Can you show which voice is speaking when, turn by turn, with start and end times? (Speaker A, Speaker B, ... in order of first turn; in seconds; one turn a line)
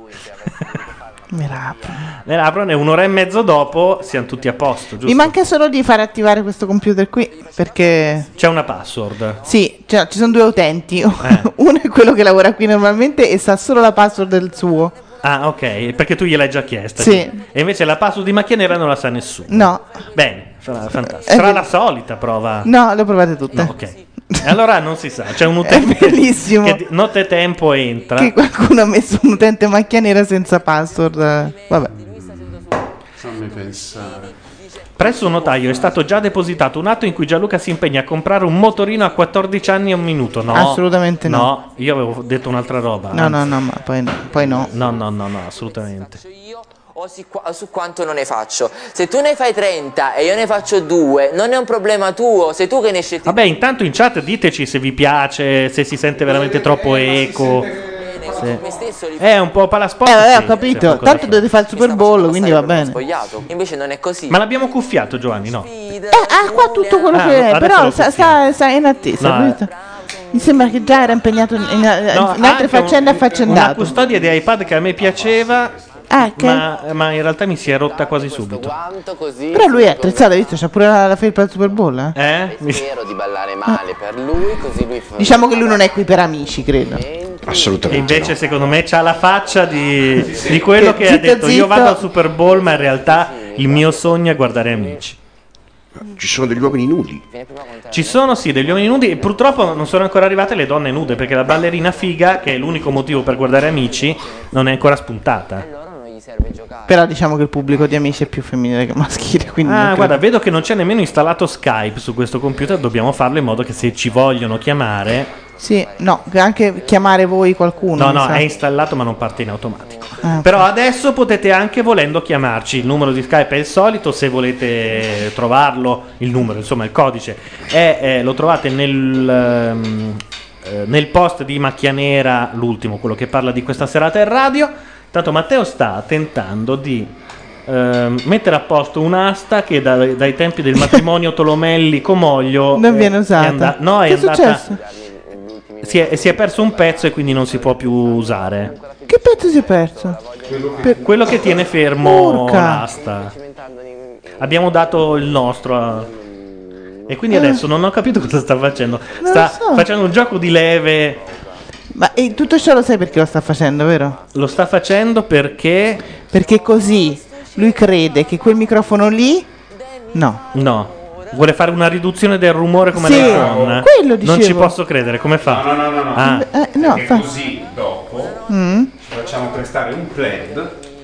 Speaker A: 1.3-2.0
Speaker B: 2.2-5.3
Speaker A: 5.0-8.3
Speaker B: 8.3-9.4
Speaker A: 9.4-14.9
Speaker B: 11.2-11.5
Speaker B: 15.2-22.7
Speaker A: 17.0-17.4
Speaker A: 19.5-19.8
Speaker A: 21.1-21.7
Speaker A: 22.6-23.7
Speaker B: 23.5-28.3
Speaker A: 24.3-24.6
Speaker A: 25.6-26.8
Speaker A: 28.1-31.9
Speaker C: 31.9-34.3
Speaker B: 35.0-43.5
Speaker A: 40.5-41.5
Speaker A: 43.1-44.7
Speaker B: 44.6-46.2
Speaker D: 46.9-53.4
Speaker B: 53.2-57.7
Speaker C: 56.3-58.6
Speaker D: 58.0-59.2
Speaker B: 59.2-61.5
Speaker A: 60.0-63.0
Speaker D: 61.5-64.4
Speaker B: 64.3-65.7
Speaker D: 65.6-67.1
Speaker A: 66.1-69.7
Speaker B: 67.1-68.4
Speaker B: 69.2-69.6
Speaker A: 70.3-74.0
Speaker B: 72.1-78.7
Speaker A: 76.1-76.7
Speaker D: 78.3-80.5
Speaker A: 79.5-82.1
Speaker B: 82.1-82.8
Speaker D: 82.5-85.8
Speaker A: 85.2-87.0
Speaker D: 87.0-87.7
Speaker E: 87.4-88.4
Speaker B: 87.9-95.2
Speaker A: 90.8-92.0
Speaker D: 92.5-94.0
Speaker E: 96.0-97.2
Speaker D: 97.3-99.2
Speaker B: 97.9-105.6
Speaker D: 105.6-106.9
Speaker A: 106.9-110.2
Speaker B: 109.6-115.3
Speaker A: 115.6-118.5
Speaker B: 118.0-137.1
Speaker A: 120.2-120.7
Speaker B: 137.7-144.6
Speaker A: 142.7-144.8
Speaker D: 144.7-149.0
Speaker B: 145.8-148.7
Speaker A: 149.1-150.2
Speaker D: 149.9-150.2
Speaker C: 150.5-151.0
Speaker B: 151.0-153.3
Speaker A: 152.0-152.8
Speaker B: 154.4-156.1
Speaker B: 157.1-161.2
Speaker A: 157.3-157.6
Speaker A: 159.2-159.9
Speaker A: 161.9-164.2
Speaker B: 164.3-166.0
Speaker A: 166.3-169.5
Speaker A: 170.1-170.4
Speaker B: 170.5-176.5
Speaker A: 172.9-174.7
Speaker C: 173.0-173.8
Speaker C: 175.4-178.4
Speaker A: 176.2-177.3
Speaker A: 178.5-178.9
Speaker C: 179.0-180.7